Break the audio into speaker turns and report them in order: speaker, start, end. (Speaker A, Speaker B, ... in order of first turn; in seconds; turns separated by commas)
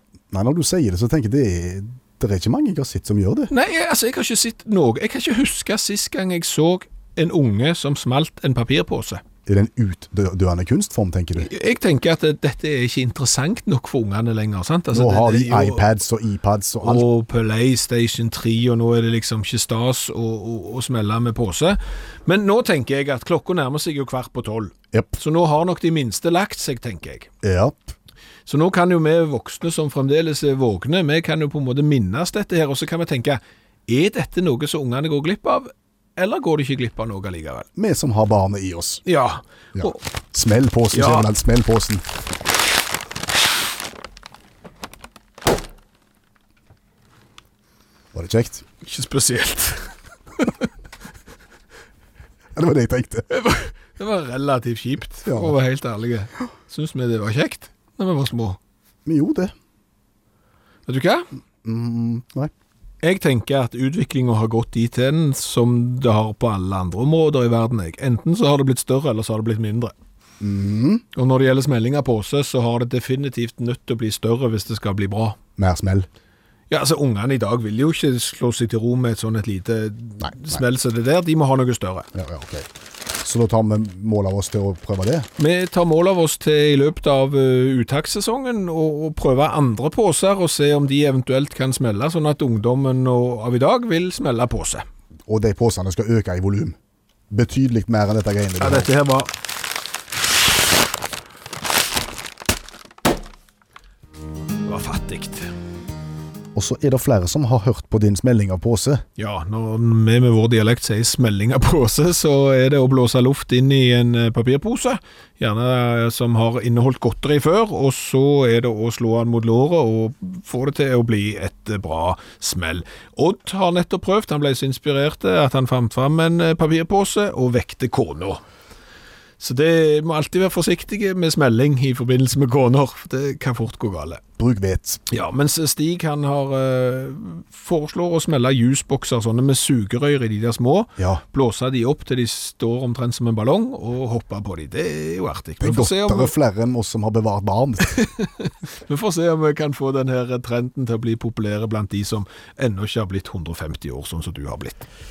Speaker A: 0.3-3.5, Speaker B: 3.5-9.2, Speaker A: 9.5-11.5, Speaker B: 11.4-15.8, Speaker A: 14.9-17.1, Speaker B: 16.8-27.3, Speaker A: 27.4-27.9, Speaker B: 28.5-37.7, Speaker A: 37.8-39.0, Speaker B: 39.1-40.0, Speaker A: 39.8-42.0, Speaker B: 40.9-41.3, Speaker A: 48.1-48.6, Speaker B: 48.8-50.7, Speaker A: 52.6-53.3, Speaker B: 53.3-58.6, Speaker A: 55.3-55.5, Speaker A: 59.1-59.5, Speaker B: 60.9-61.3, Speaker A: 61.6-62.5, Speaker B: 63.0-69.9, Speaker A: 70.4-71.0, Speaker B: 71.1-75.4, Speaker A: 75.6-76.1, Speaker B: 76.7-82.1, Speaker A: 82.2-82.7, Speaker A: 83.2-85.3, Speaker B: 85.4-94.8, Speaker A: 95.3-96.8, Speaker A: 97.3-98.9, Speaker B: 98.6-99.3, Speaker B: 104.7-105.5, Speaker A: 106.5-109.0, Speaker B: 109.2-128.4, Speaker B: 129.4-134.2, Speaker A: 134.4-135.0, Speaker B: 135.1-146.3, Speaker A: 145.6-148.0, Speaker B: 147.9-154.9